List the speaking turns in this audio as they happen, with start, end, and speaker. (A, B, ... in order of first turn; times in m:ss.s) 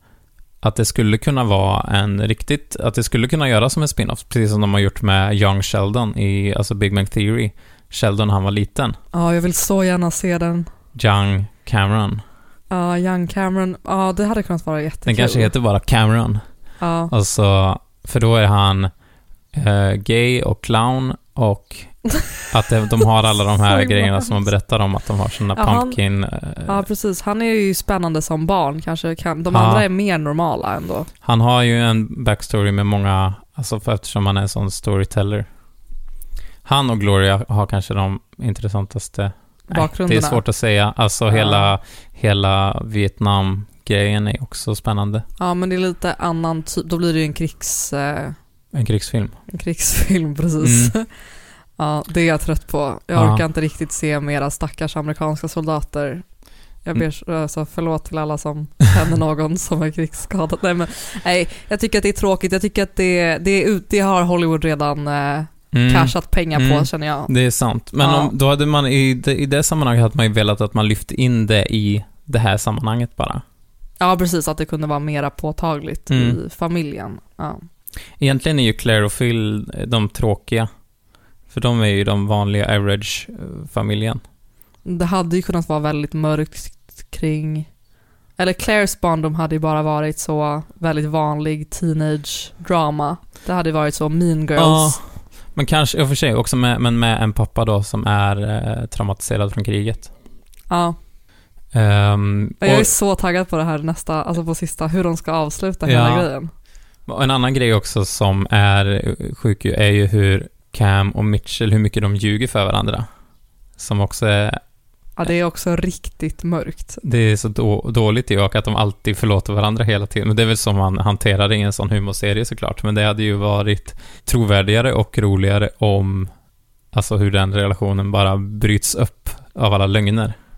0:00.6-0:09.0 A
0:09.1-0:10.7 B
0:10.9-0:12.2 A
0:12.7-0:15.5 B
0:15.0-0:16.4 A
0:16.8-0:17.1 B
0:17.1-0:18.9 A
0:19.5-0:22.0 A
0:22.5-0:26.8 A
0:23.7-0:24.4 B
0:25.5-0:26.0 B
0:26.7-0:31.1 B
0:29.5-0:29.8 A
0:31.2-0:35.4 A
0:36.6-0:45.2 A
0:39.7-0:40.4 B
0:41.3-0:41.7 B
0:45.4-0:48.4 B
0:48.7-0:49.4 A
0:49.5-0:51.1 B
0:50.6-0:50.9 A
0:51.8-0:56.2 B
0:53.1-0:53.4 A
0:56.8-1:07.3 B
1:05.7-1:13.4 A
1:08.0-1:08.3 B
1:14.0-1:17.6 B
1:16.1-1:16.4 A
1:18.2-1:20.7 A
1:21.5-1:24.2 A
1:24.8-1:27.7 B
1:28.4-1:35.0 B
1:34.6-1:35.0 A
1:35.5-1:40.1 A
1:40.7-1:41.0 B
1:41.7-1:42.9 A
1:42.6-1:46.5 B
1:45.8-1:46.3 A
1:47.0-1:53.0 A
1:53.8-1:54.6 A
1:55.2-1:57.0 B
1:57.0-2:06.3 A
2:06.9-2:10.4 A